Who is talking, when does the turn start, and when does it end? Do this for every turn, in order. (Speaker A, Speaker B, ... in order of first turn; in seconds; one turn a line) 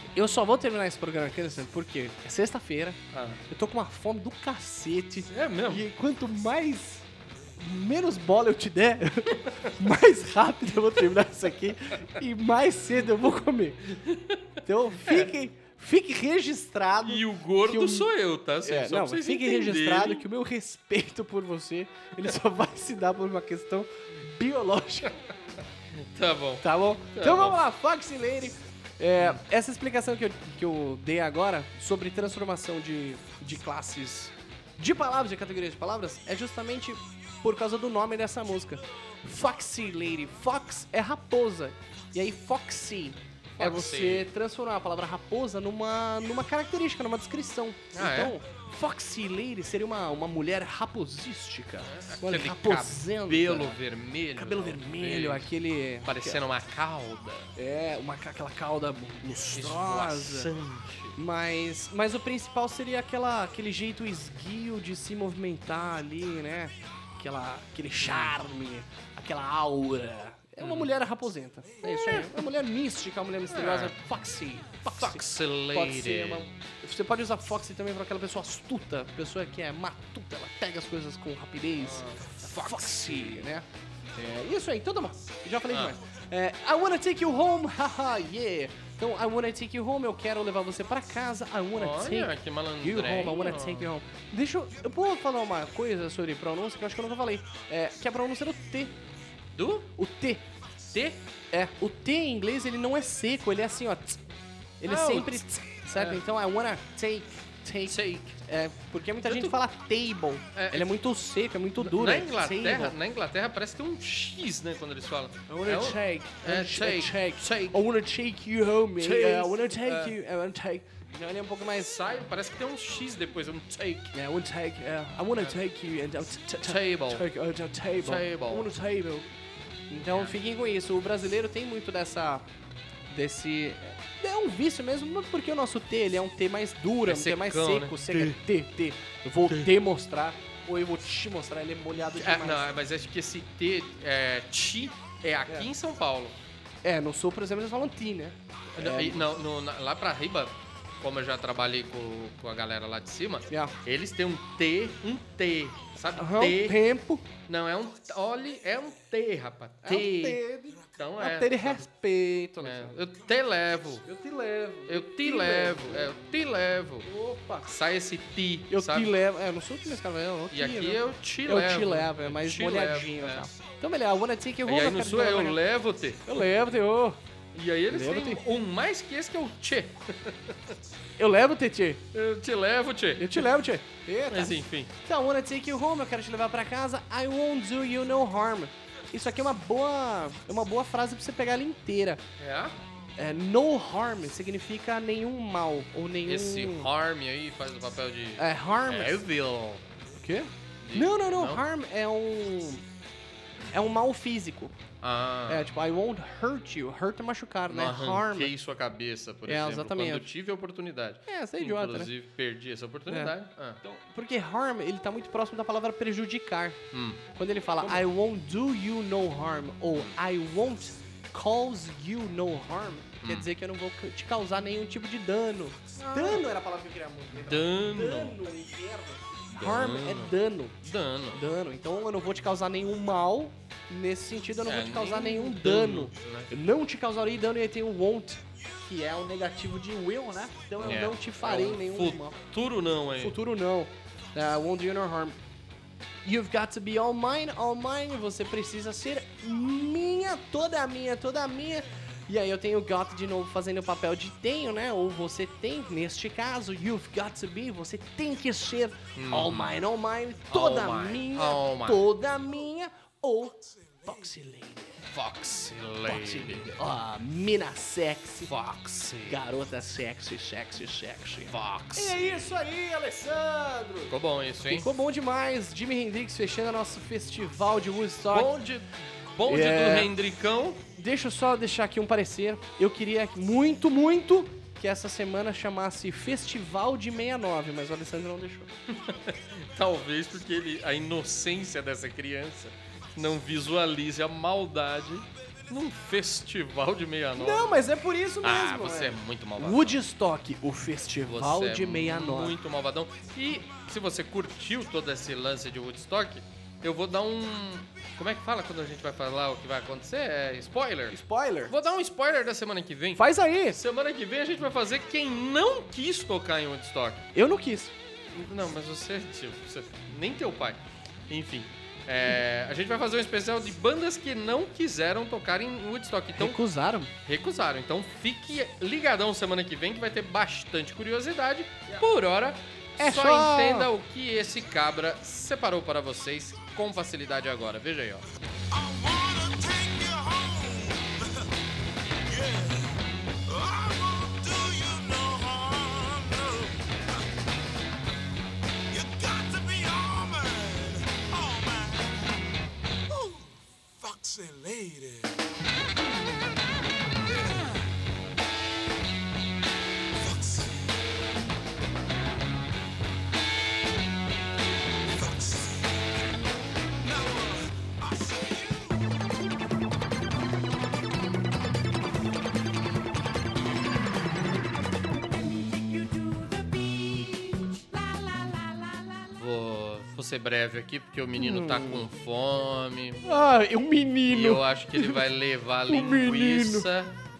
Speaker A: 0.1-14.0
Speaker B: 3.1-3.4
Speaker B: 5.3-5.8
Speaker B: 13.9-15.3
Speaker A: 14.6-18.1
Speaker B: 17.0-20.2
Speaker A: 18.6-25.1
Speaker B: 25.9-27.6
Speaker A: 26.6-53.8
Speaker B: 43.6-44.3
Speaker B: 47.9-48.4
Speaker B: 51.8-55.5
Speaker A: 54.3-56.4
Speaker B: 56.0-57.5
Speaker A: 57.5-60.5
Speaker B: 59.5-61.2
Speaker A: 61.1-99.0
Speaker B: 68.0-68.4
Speaker B: 70.6-70.9
Speaker B: 71.8-72.5
Speaker B: 73.5-73.9
Speaker B: 74.8-76.5
Speaker B: 81.8-83.4
Speaker B: 85.7-86.0
Speaker B: 91.7-93.9
Speaker B: 99.5-99.9
Speaker A: 100.0-104.2
Speaker A: 104.8-113.0
Speaker B: 104.8-106.2
Speaker B: 107.8-108.3
Speaker B: 109.2-109.5
Speaker B: 110.5-110.9
Speaker B: 111.8-117.8
Speaker A: 115.5-121.9
Speaker B: 119.0-120.1
Speaker B: 121.7-124.1
Speaker A: 124.1-129.3
Speaker B: 126.6-127.3
Speaker B: 128.0-128.7
Speaker A: 129.9-132.4
Speaker B: 130.1-130.3
Speaker A: 133.1-142.7
Speaker B: 137.0-138.4
Speaker B: 139.5-139.7
Speaker B: 142.1-146.4
Speaker A: 146.8-149.2
Speaker B: 148.8-156.8
Speaker A: 153.5-153.7
Speaker A: 156.2-157.2
Speaker B: 157.5-161.8
Speaker A: 159.8-163.0
Speaker B: 162.6-164.1
Speaker A: 164.0-166.1
Speaker B: 164.8-167.1
Speaker A: 167.0-167.7
Speaker B: 167.6-169.2
Speaker A: 168.7-175.6
Speaker B: 170.5-173.5
Speaker B: 174.7-176.5
Speaker A: 176.2-177.2
Speaker B: 177.5-180.8
Speaker A: 177.9-178.4
Speaker A: 181.2-182.0
Speaker B: 182.1-183.5
Speaker A: 183.2-192.2
Speaker B: 184.3-184.9
Speaker B: 192.4-192.8
Speaker A: 193.2-196.9
Speaker B: 196.2-199.9
Speaker A: 198.4-199.2
Speaker A: 200.2-202.8
Speaker B: 200.8-201.6
Speaker A: 203.7-204.7
Speaker B: 205.0-205.7
Speaker A: 205.5-208.5
Speaker B: 207.7-213.8
Speaker A: 209.4-210.3
Speaker A: 211.3-212.1
Speaker A: 213.1-216.8
Speaker B: 216.9-217.2
Speaker A: 217.3-230.8
Speaker B: 217.8-218.0
Speaker B: 219.9-220.2
Speaker B: 223.2-223.5
Speaker B: 226.0-226.4
Speaker B: 227.3-228.4
Speaker B: 229.5-231.4
Speaker A: 231.3-242.4
Speaker B: 234.7-236.5
Speaker B: 240.8-243.4
Speaker A: 243.2-245.4
Speaker A: 246.2-265.1
Speaker B: 259.1-259.8
Speaker B: 260.5-262.0
Speaker C: 263.7-264.1
Speaker B: 265.0-266.7
Speaker A: 266.0-268.5
Speaker B: 268.4-269.4
Speaker A: 269.3-274.1
Speaker B: 271.4-272.4
Speaker B: 274.1-274.9
Speaker A: 274.7-278.5
Speaker B: 278.3-280.8
Speaker A: 279.5-280.1
Speaker A: 280.9-288.7
Speaker B: 288.9-297.8
Speaker A: 297.4-302.6
Speaker B: 298.4-300.0
Speaker B: 301.2-317.3
Speaker A: 311.1-311.7
Speaker A: 313.1-313.8
Speaker A: 317.3-317.9
Speaker B: 318.3-326.6
Speaker A: 326.3-327.1
Speaker B: 327.2-338.2
Speaker A: 333.0-333.9
Speaker C: 338.7-341.5
Speaker C: 342.2-347.2
Speaker C: 348.9-352.3
Speaker C: 353.1-355.4
Speaker C: 357.3-357.7
Speaker C: 360.1-361.1
Speaker C: 365.0-366.4
Speaker C: 367.0-369.1
Speaker B: 379.3-383.3
Speaker A: 381.4-382.1
Speaker A: 383.2-385.2
Speaker B: 384.3-387.2
Speaker A: 385.9-386.9